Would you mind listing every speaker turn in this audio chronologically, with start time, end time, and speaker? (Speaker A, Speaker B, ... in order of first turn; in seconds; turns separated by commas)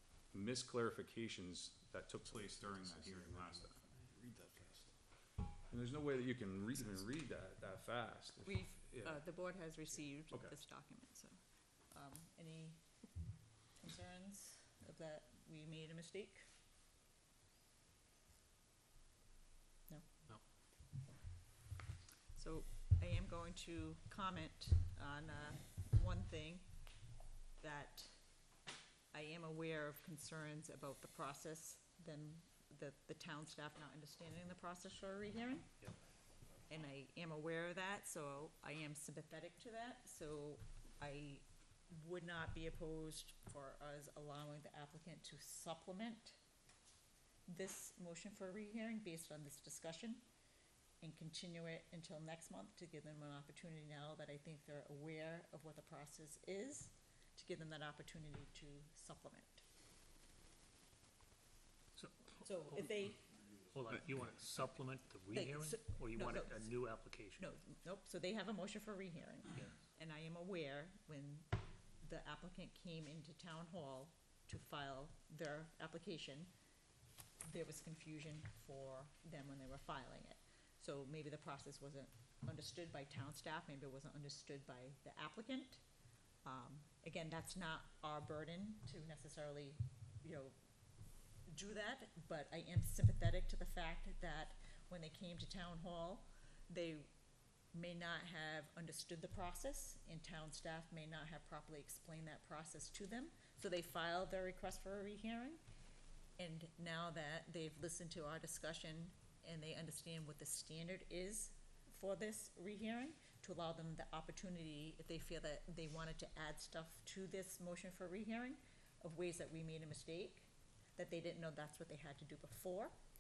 Speaker A: 0.3-3.8, Speaker B: 2.6-4.9, Speaker A: 5.7-9.2, Speaker C: 8.4-11.3, Speaker A: 10.3-10.6, Speaker C: 11.9-12.8, Speaker C: 13.8-16.4, Speaker C: 22.4-26.6, Speaker C: 27.6-28.2, Speaker C: 29.1-35.7, Speaker C: 36.7-46.4, Speaker C: 47.5-50.2, Speaker C: 51.0-59.6, Speaker D: 62.0-63.1, Speaker C: 62.4-63.2, Speaker D: 63.7-67.5, Speaker C: 65.3-66.7, Speaker C: 67.4-71.5, Speaker D: 69.5-69.8, Speaker C: 72.0-76.5, Speaker C: 77.5-85.8, Speaker C: 86.4-90.5, Speaker C: 91.5-97.1, Speaker C: 97.7-105.6, Speaker C: 106.4-122.9